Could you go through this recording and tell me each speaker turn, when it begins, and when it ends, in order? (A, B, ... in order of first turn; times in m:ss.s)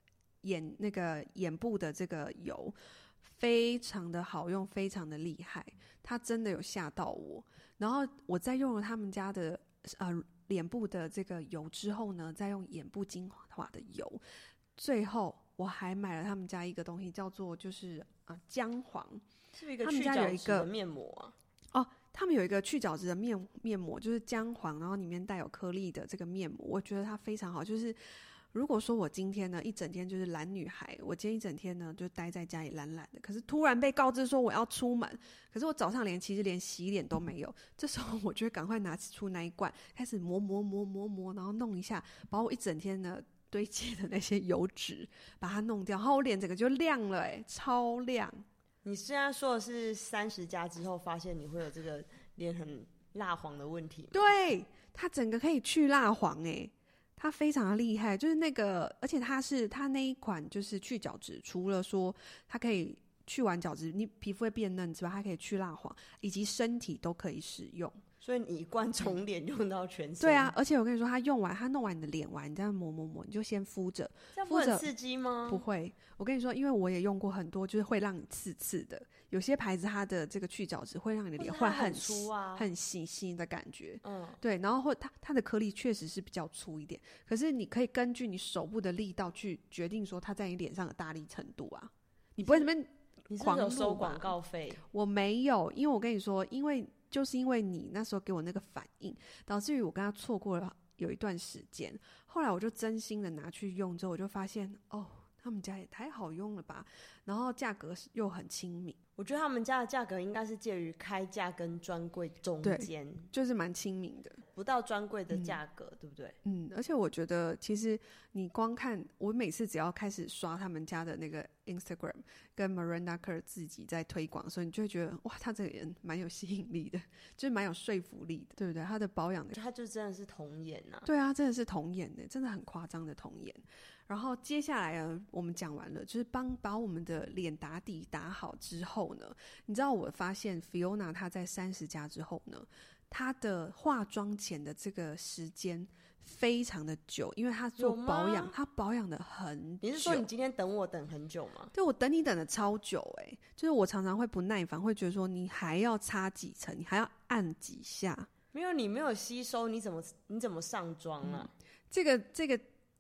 0:00.4-0:14.2 A
0:14.8-0:19.2 A
0:19.5-0:21.3 B
0:19.8-0:20.7 A
0:21.7-0:48.4 A
0:48.8-0:54.2 B
0:54.1-1:08.0 A
1:08.2-1:10.5 B
1:10.2-1:14.8 A
1:14.3-1:15.6 B
1:15.5-1:34.3 A
1:21.4-1:22.7 B
1:24.0-1:24.4 B
1:33.3-1:34.8 B
1:34.9-1:49.0 A
1:49.2-1:53.3 B
1:52.6-1:54.4 A
1:54.5-1:56.4 B
1:55.3-1:55.6 A
1:56.4-2:09.6 A
2:09.5-2:11.1 B
2:11.0-2:30.2 A
2:27.8-2:28.5 B
2:29.8-2:31.7 B
2:31.7-2:38.3 A
2:38.5-2:41.5 B
2:41.2-2:42.6 A